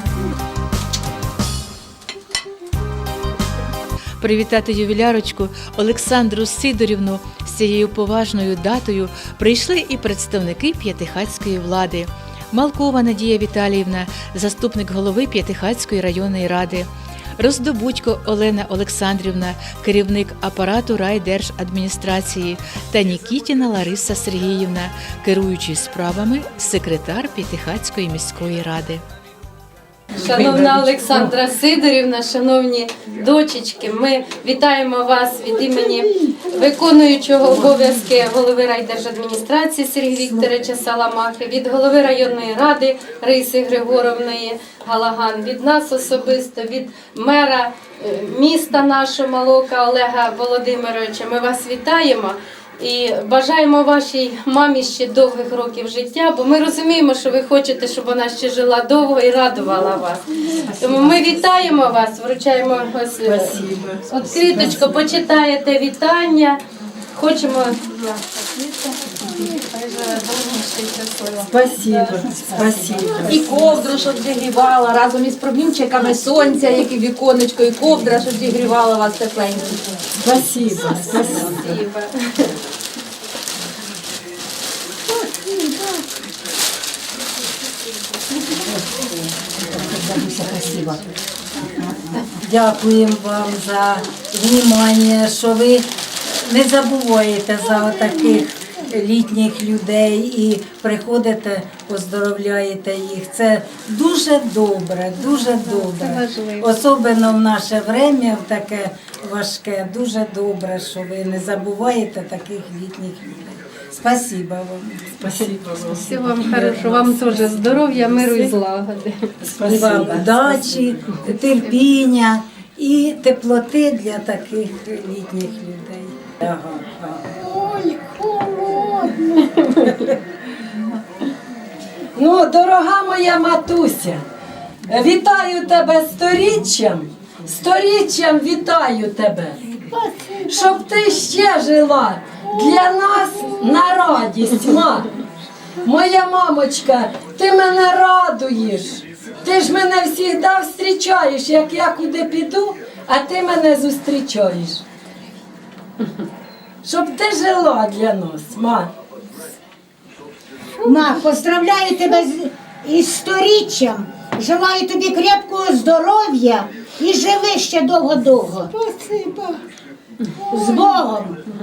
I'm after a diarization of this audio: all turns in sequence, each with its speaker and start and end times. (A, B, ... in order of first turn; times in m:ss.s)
0:04.2-0:29.0 A
0:30.1-1:00.3 B
1:00.6-1:01.2 C
1:00.8-1:06.6 B
1:03.2-1:05.0 C
1:07.1-1:08.2 B
1:09.6-1:11.2 B
1:11.4-1:13.8 C
1:11.9-1:12.2 D
1:13.1-1:20.0 D
1:20.2-1:21.8 C
1:20.9-1:21.6 D
1:21.4-1:22.4 B
1:32.3-1:55.4 E
1:45.9-1:46.6 B
1:55.2-1:58.5 C
1:55.9-1:59.3 B
1:59.4-2:01.1 C
1:59.6-2:06.2 E
2:06.4-2:07.2 C
2:12.1-2:14.2 C
2:14.8-2:19.6 C
2:20.5-2:25.2 C
2:25.8-2:34.8 C
2:36.8-2:38.9 C
2:40.8-2:49.6 F
2:50.5-2:51.4 F